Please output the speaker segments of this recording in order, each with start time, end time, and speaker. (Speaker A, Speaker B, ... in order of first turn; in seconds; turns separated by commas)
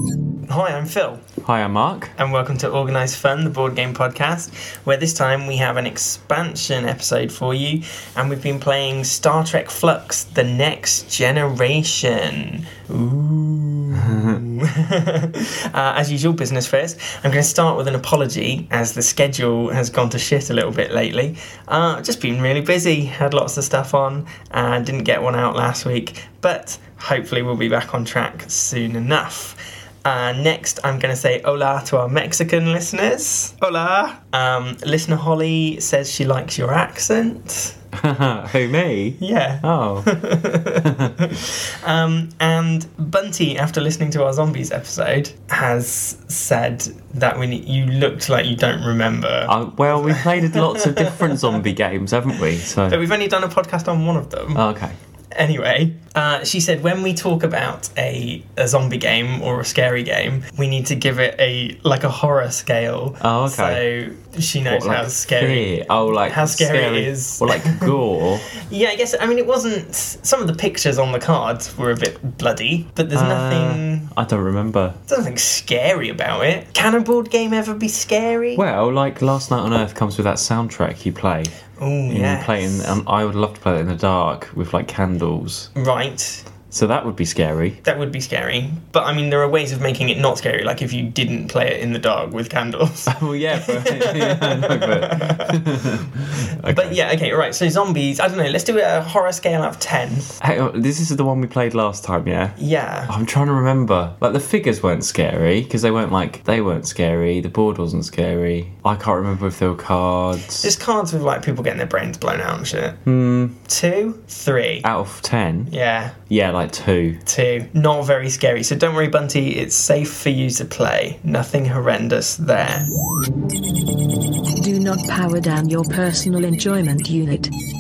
Speaker A: 0.5-1.2, Speaker B: 1.4-2.1, Speaker A: 2.2-37.8, Speaker B: 14.1-14.4, Speaker B: 38.0-40.1, Speaker A: 39.2-51.5, Speaker B: 40.8-41.1, Speaker B: 49.5-53.0, Speaker A: 52.8-54.6, Speaker B: 54.5-55.0, Speaker A: 55.3-68.0, Speaker B: 63.2-63.9, Speaker B: 64.7-68.5, Speaker A: 68.6-74.1, Speaker B: 73.1-75.0, Speaker A: 75.1-78.7, Speaker B: 78.5-81.6, Speaker A: 81.8-83.0, Speaker B: 82.1-85.7, Speaker A: 85.8-86.5, Speaker B: 86.7-87.8, Speaker A: 87.8-95.6, Speaker B: 93.1-97.0, Speaker A: 96.6-100.3, Speaker B: 100.4-110.7, Speaker A: 102.6-103.1, Speaker A: 110.6-113.0, Speaker B: 113.1-113.6, Speaker A: 113.7-114.9, Speaker B: 114.8-115.7, Speaker A: 115.7-116.2, Speaker B: 116.3-117.2, Speaker A: 117.2-122.9, Speaker C: 124.6-127.5